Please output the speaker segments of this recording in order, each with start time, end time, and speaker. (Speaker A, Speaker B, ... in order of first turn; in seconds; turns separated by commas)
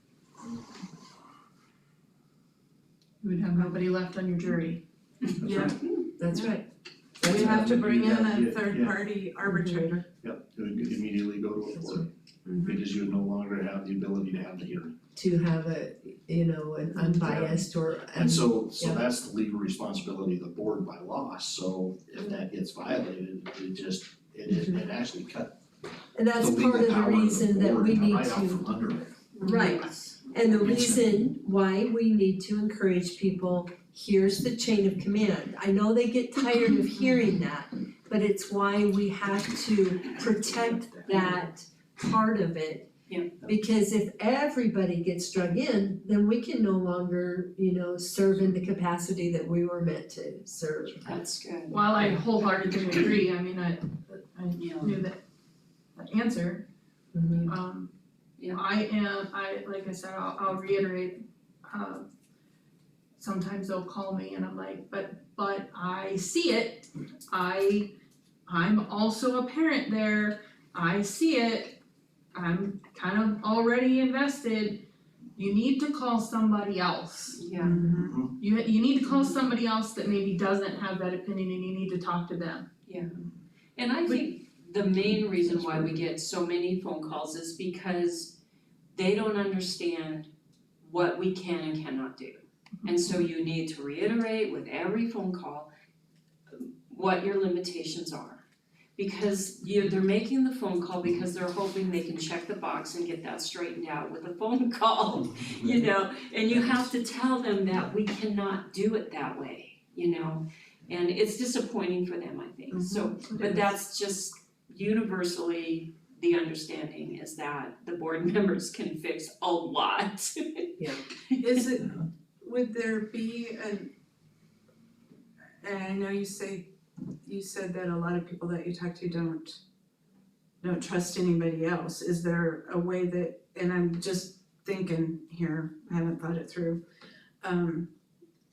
Speaker A: 3.2-4.8, Speaker B: 5.4-5.8, Speaker C: 5.5-5.8, Speaker D: 5.5-6.7, Speaker D: 7.2-7.8, Speaker B: 7.2-10.1, Speaker E: 7.3-9.0, Speaker D: 9.5-9.9, Speaker E: 10.2-12.1, Speaker D: 11.8-12.1, Speaker E: 12.6-14.9, Speaker D: 15.2-19.0, Speaker E: 17.2-25.6, Speaker D: 24.5-24.8, Speaker D: 26.1-28.7, Speaker E: 26.4-29.2, Speaker C: 29.3-30.2, Speaker D: 29.4-42.9, Speaker E: 30.6-31.2, Speaker C: 43.1-43.5, Speaker D: 43.5-51.2, Speaker C: 51.0-51.9, Speaker A: 51.7-55.2, Speaker C: 54.6-55.0, Speaker A: 56.0-56.7, Speaker D: 57.1-57.5, Speaker A: 57.4-57.9, Speaker A: 58.5-62.1, Speaker A: 63.2-67.9, Speaker A: 68.5-71.8, Speaker A: 72.3-74.8, Speaker A: 75.4-77.5, Speaker C: 77.4-77.9, Speaker B: 77.6-78.3, Speaker A: 78.3-82.7, Speaker C: 82.9-83.1, Speaker C: 83.8-88.4, Speaker C: 88.9-90.3, Speaker C: 90.8-95.7, Speaker C: 96.5-98.4, Speaker C: 99.0-120.7, Speaker B: 112.7-113.8, Speaker B: 121.3-123.9, Speaker B: 125.6-126.7, Speaker B: 127.2-129.6, Speaker B: 130.6-136.8, Speaker B: 137.4-137.9